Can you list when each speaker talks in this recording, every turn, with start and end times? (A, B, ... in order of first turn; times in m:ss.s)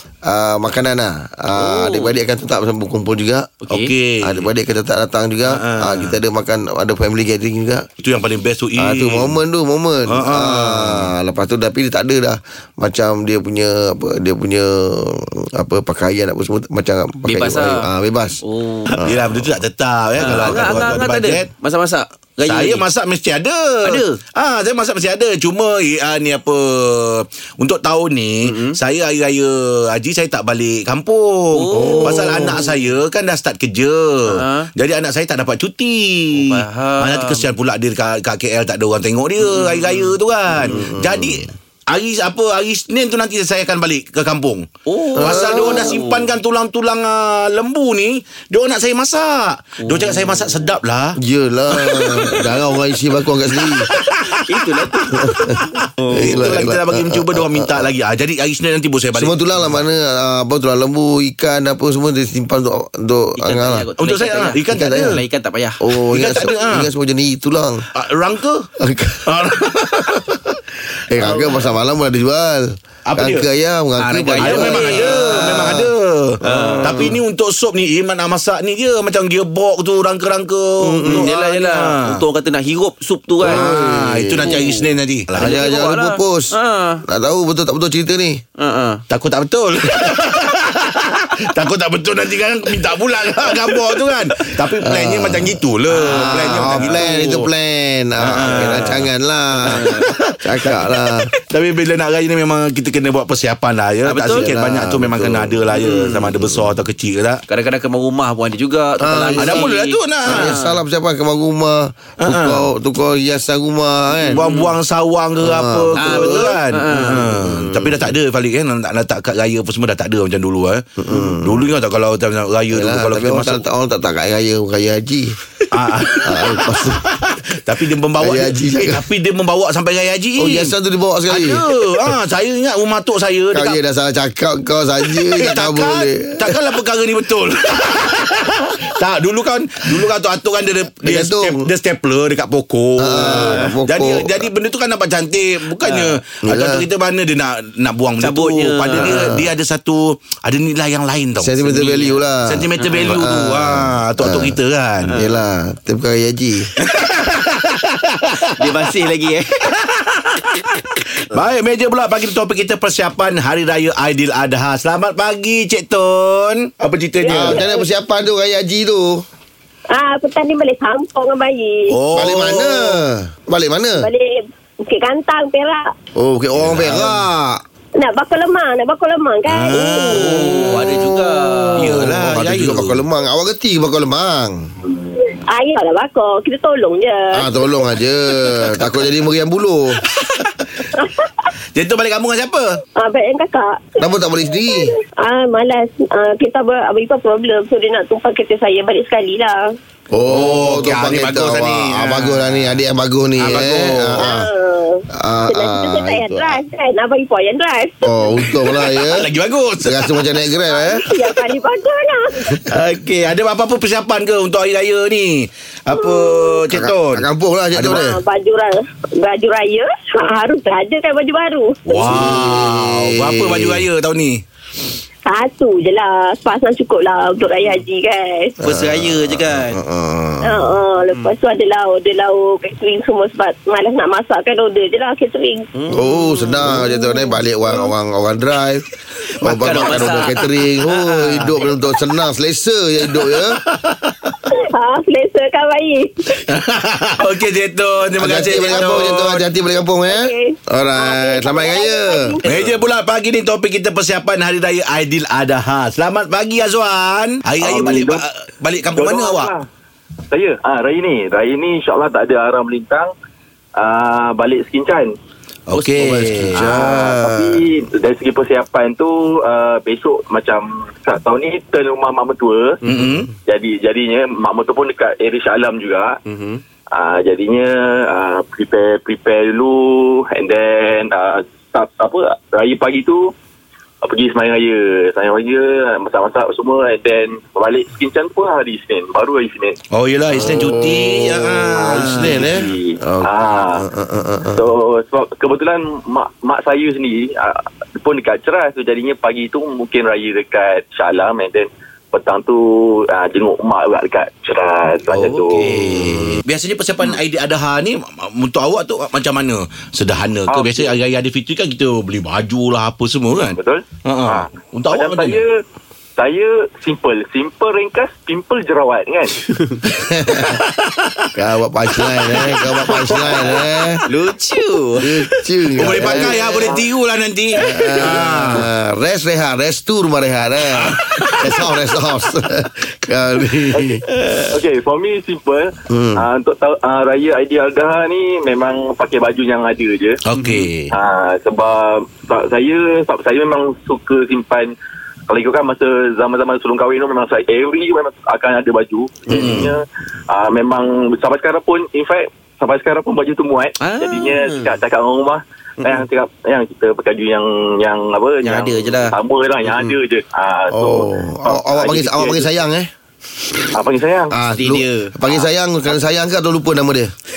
0:00.2-0:03.5 A
0:01.6-0:02.1 B
0:03.6-0:03.9 B
0:03.7-0:04.5 C
0:04.2-0:07.9 A
0:05.5-0:06.2 C
0:08.0-0:09.4 C
0:08.8-0:18.4 A
0:10.1-0:11.1 C
0:17.3-0:17.9 B
0:18.4-0:19.0 B
0:18.9-0:21.5 C
0:19.0-0:19.4 A
0:20.2-0:22.8 B
0:20.5-0:20.8 A
0:22.5-0:44.7 C
0:23.8-0:24.2 B
0:28.4-0:28.8 B
0:31.5-0:32.6 B
0:31.8-0:32.6 A
0:34.3-0:34.7 B
0:36.3-0:37.4 B
0:39.4-0:40.1 B
0:40.6-0:41.4 A
0:44.9-0:46.3 B
0:45.2-0:46.0 A
0:45.2-0:51.2 C
0:49.8-0:50.8 B
0:51.2-0:53.9 A
0:51.7-0:52.5 C
0:53.6-0:59.8 C
0:54.5-0:55.3 B
0:55.1-0:55.6 A
0:56.0-0:56.6 B
0:56.1-0:57.9 A
0:59.1-1:03.9 A
1:03.4-1:05.8 B
1:04.0-1:05.2 C
1:04.7-1:05.2 A
1:05.8-1:07.9 A
1:06.1-1:06.9 C
1:07.9-1:08.7 C
1:08.8-1:10.2 A
1:09.3-1:10.3 C
1:11.1-1:15.9 A
1:13.1-1:13.5 C
1:14.0-1:15.9 B
1:14.4-1:22.2 C
1:16.4-1:17.2 A
1:16.5-1:17.2 B
1:20.8-1:21.3 A
1:21.0-1:23.7 B
1:23.4-1:24.6 A
1:23.4-1:25.6 C
1:24.4-1:27.0 B
1:25.4-1:26.5 A
1:27.1-1:28.4 A
1:28.6-1:29.0 B
1:29.1-1:37.5 C
1:34.8-1:41.3 A
1:35.9-1:37.4 B
1:38.2-1:39.1 C
1:38.4-1:38.9 B
1:39.6-1:40.1 B
1:39.6-1:47.4 C
1:44.1-1:44.5 B
1:44.3-1:45.6 A
1:45.7-1:46.3 B
1:47.5-1:50.8 B
1:49.0-1:49.6 A
1:49.4-1:50.6 C
1:50.3-1:54.4 A
1:52.2-1:52.7 C
1:54.3-1:54.7 B
1:54.3-2:03.6 C
1:55.4-1:58.1 A
1:56.0-1:57.4 B
2:01.0-2:01.7 A
2:02.7-2:05.4 A
2:05.7-2:10.7 C
2:06.2-2:07.0 A
2:08.2-2:09.0 A
2:10.4-2:12.1 A
2:11.3-2:13.8 C
2:13.5-2:16.6 A
2:15.2-2:35.2 C
2:21.0-2:21.7 A
2:23.0-2:24.5 A
2:23.2-2:23.8 B
2:25.8-2:26.2 B
2:26.4-2:26.8 A
2:28.2-2:29.3 B
2:29.0-2:29.4 A
2:31.4-2:34.6 A
2:32.8-2:33.3 B
2:35.1-2:35.3 B
2:35.1-2:36.7 A
2:36.8-2:38.9 C
2:38.6-2:39.7 B
2:39.6-2:47.7 C
2:47.3-2:49.2 A
2:47.4-2:47.7 D
2:49.9-2:52.0 D
2:51.9-2:53.0 C
2:52.1-2:54.1 A
2:54.0-2:55.9 D
2:56.2-2:57.6 A
2:56.6-2:57.2 C
2:58.0-3:00.4 D
2:59.5-3:01.1 C
3:00.2-3:02.2 B
3:00.3-3:04.7 A
3:01.8-3:03.0 C
3:05.3-3:07.5 D
3:07.3-3:10.0 A
3:10.0-3:10.8 C
3:11.0-3:11.3 D
3:11.7-3:12.8 C
3:13.0-3:14.0 D
3:14.0-3:14.9 A
3:14.6-3:19.8 D
3:20.1-3:24.5 A
3:20.3-3:22.8 C
3:23.4-3:24.3 C
3:24.2-3:28.3 D
3:25.1-3:26.6 A
3:28.0-3:29.3 A
3:28.4-3:30.4 C
3:29.8-3:31.1 A
3:30.7-3:32.6 D
3:32.7-3:38.0 C
3:35.9-3:36.7 D
3:36.7-3:38.2 A
3:37.8-3:42.2 D
3:41.9-3:44.4 C
3:42.1-3:43.8 A
3:45.2-3:48.6 D
3:48.6-3:49.8 B
3:48.6-3:50.6 A
3:50.4-3:55.7 D
3:55.8-3:56.8 B
3:55.9-3:58.8 A
3:56.8-3:57.3 D
3:59.3-4:01.7 B
3:59.4-4:03.6 A
3:59.6-4:00.3 C
4:03.4-4:04.4 C
4:04.5-4:06.4 D
4:06.5-4:09.5 C
4:08.2-4:12.4 A
4:10.1-4:12.7 D
4:12.4-4:19.5 C
4:17.6-4:18.2 E
4:19.0-4:19.7 E
4:20.3-4:23.1 E
4:23.8-4:25.2 E
4:25.7-4:27.0 C
4:25.7-4:26.7 B
4:26.0-4:27.6 A
4:26.8-4:32.8 E
4:32.8-4:33.2 B
4:32.8-4:33.3 C
4:33.5-4:36.2 E
4:36.3-4:36.6 B
4:36.9-4:43.3 E
4:44.0-4:49.8 E
4:49.9-4:52.7 C
4:50.3-4:54.6 A
4:51.8-4:53.9 E
4:54.5-5:05.7 E
5:05.1-5:15.4 C
5:05.5-5:06.4 A
5:10.5-5:11.0 E
5:13.4-5:15.6 E
5:16.2-5:19.4 E
5:19.4-5:19.8 B
5:19.9-5:20.6 A
5:20.3-5:21.3 C
5:21.4-5:24.0 A
5:22.1-5:22.5 C
5:23.0-5:23.4 C
5:24.1-5:25.3 B
5:25.0-5:26.4 A
5:25.8-5:28.7 C
5:25.8-5:26.6 B
5:26.1-5:26.9 E
5:27.6-5:34.0 A
5:30.7-5:31.7 C
5:34.5-5:40.2 E
5:35.9-5:36.2 A
5:40.2-5:40.9 C
5:40.4-5:40.7 B
5:40.9-5:44.8 E
5:45.3-6:02.6 E
5:49.3-5:49.7 C
5:49.3-5:49.6 B
5:53.8-5:54.8 B
5:58.4-5:59.2 B
6:00.7-6:02.9 A
6:03.7-6:04.4 E
6:04.3-6:07.1 A
6:04.6-6:05.5 B